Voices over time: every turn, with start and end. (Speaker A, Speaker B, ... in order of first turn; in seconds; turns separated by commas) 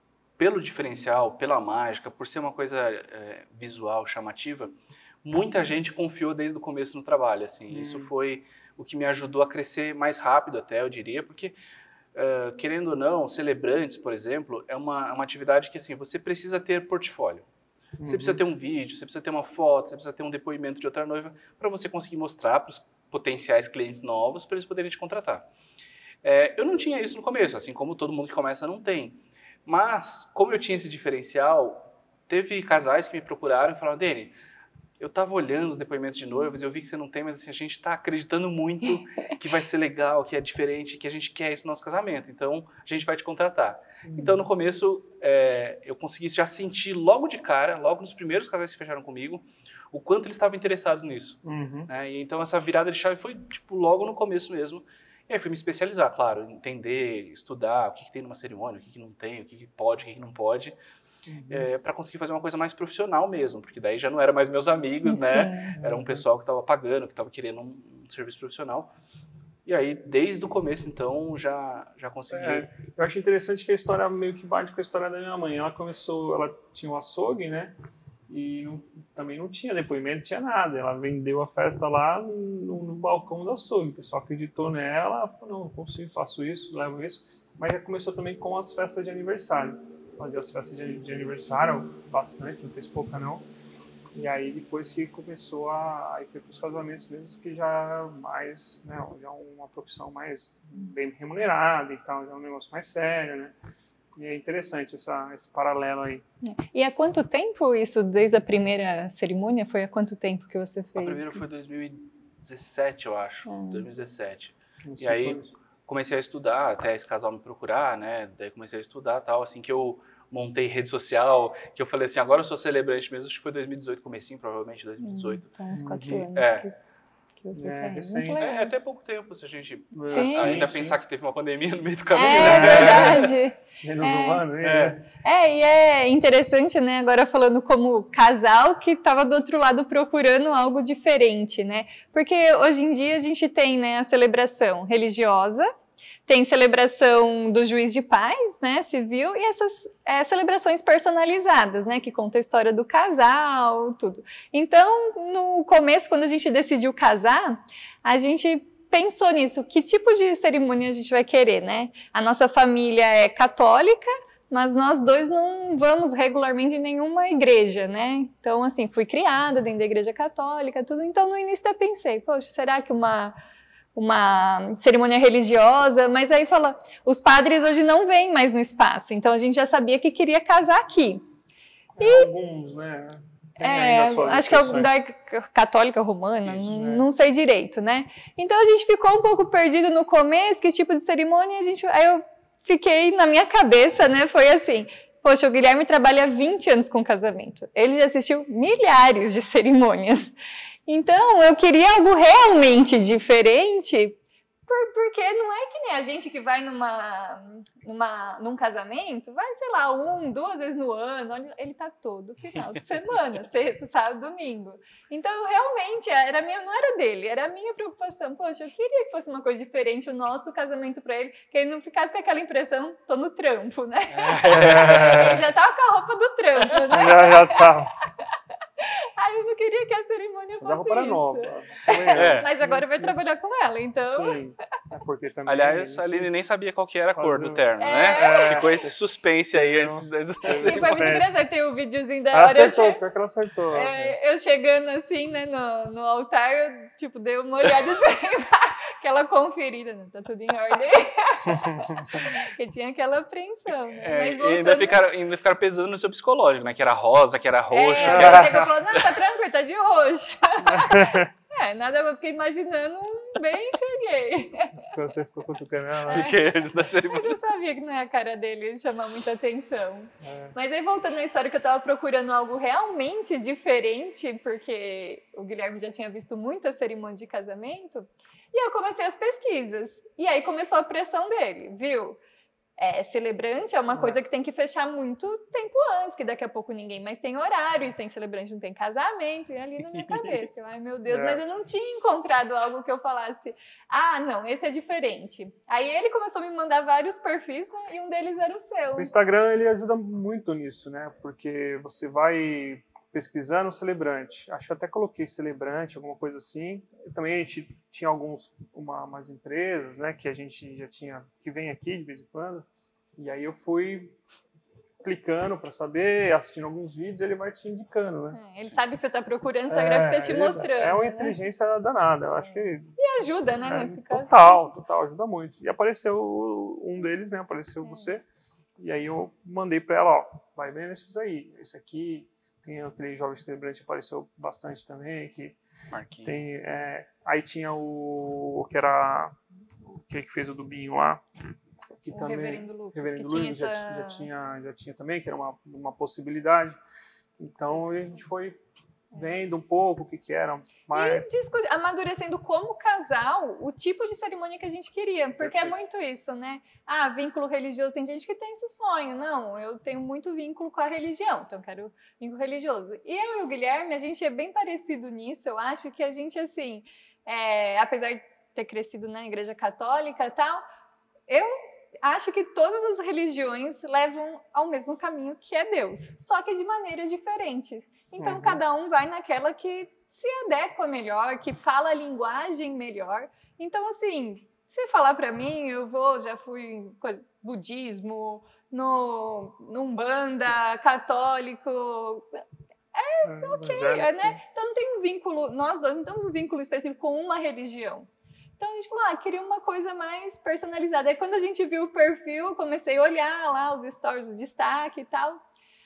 Speaker A: 0.4-11.5, Speaker B: 7.7-8.1, Speaker A: 12.1-17.4, Speaker B: 18.0-18.4, Speaker A: 18.0-25.5, Speaker A: 26.2-34.3, Speaker A: 35.0-60.8, Speaker B: 44.0-44.5, Speaker B: 51.4-51.9, Speaker B: 61.2-61.7, Speaker A: 61.5-68.9, Speaker C: 65.0-65.8, Speaker B: 65.7-66.2, Speaker A: 69.7-72.7, Speaker B: 72.3-77.7, Speaker B: 78.3-93.5, Speaker B: 94.1-103.5, Speaker B: 104.1-106.2, Speaker C: 106.4-111.4, Speaker A: 111.0-125.5, Speaker C: 113.5-113.9, Speaker B: 114.8-115.5, Speaker C: 125.0-126.8, Speaker B: 125.7-126.3, Speaker A: 126.3-126.6, Speaker C: 127.4-128.7, Speaker B: 127.5-128.5, Speaker A: 128.4-133.3, Speaker B: 129.9-131.0, Speaker C: 130.1-130.5, Speaker C: 132.1-134.4, Speaker B: 132.3-133.3, Speaker B: 133.8-135.0, Speaker A: 134.6-135.0, Speaker C: 135.2-145.7, Speaker C: 146.3-173.3, Speaker C: 173.9-181.2, Speaker B: 182.0-184.9, Speaker C: 182.0-182.3, Speaker C: 183.6-200.3, Speaker B: 186.4-187.1, Speaker C: 200.9-227.7, Speaker A: 224.1-225.4, Speaker B: 224.4-225.5, Speaker B: 226.9-227.9, Speaker C: 228.8-234.4, Speaker B: 230.6-233.2, Speaker A: 232.1-232.5, Speaker B: 234.0-236.3, Speaker A: 235.4-241.2, Speaker B: 237.1-238.9, Speaker C: 237.8-238.7, Speaker B: 239.5-241.3, Speaker C: 240.5-243.0, Speaker B: 242.3-244.2, Speaker C: 243.7-255.0, Speaker B: 251.5-252.2, Speaker A: 253.9-259.1, Speaker C: 257.7-264.9, Speaker B: 258.0-258.7, Speaker B: 260.6-261.3, Speaker B: 264.8-266.3, Speaker A: 266.1-267.4, Speaker C: 266.1-266.4, Speaker C: 267.0-282.2, Speaker B: 270.2-270.5, Speaker C: 282.8-299.1, Speaker B: 283.9-284.2, Speaker A: 289.9-290.3, Speaker B: 291.1-291.4, Speaker B: 298.9-312.6, Speaker B: 313.2-314.2, Speaker B: 315.0-318.4, Speaker C: 318.3-321.4, Speaker B: 319.7-323.0, Speaker C: 322.4-324.7, Speaker B: 323.6-328.2, Speaker C: 327.8-328.1, Speaker B: 328.8-335.6, Speaker A: 335.9-336.4, Speaker B: 336.2-341.2, Speaker B: 342.0-346.8, Speaker C: 342.1-344.3, Speaker B: 347.4-348.6, Speaker B: 349.1-351.3, Speaker C: 350.9-370.6, Speaker A: 355.4-355.7, Speaker C: 371.3-392.4, Speaker B: 378.2-378.6, Speaker C: 392.9-398.1, Speaker B: 393.2-394.4, Speaker C: 398.6-405.4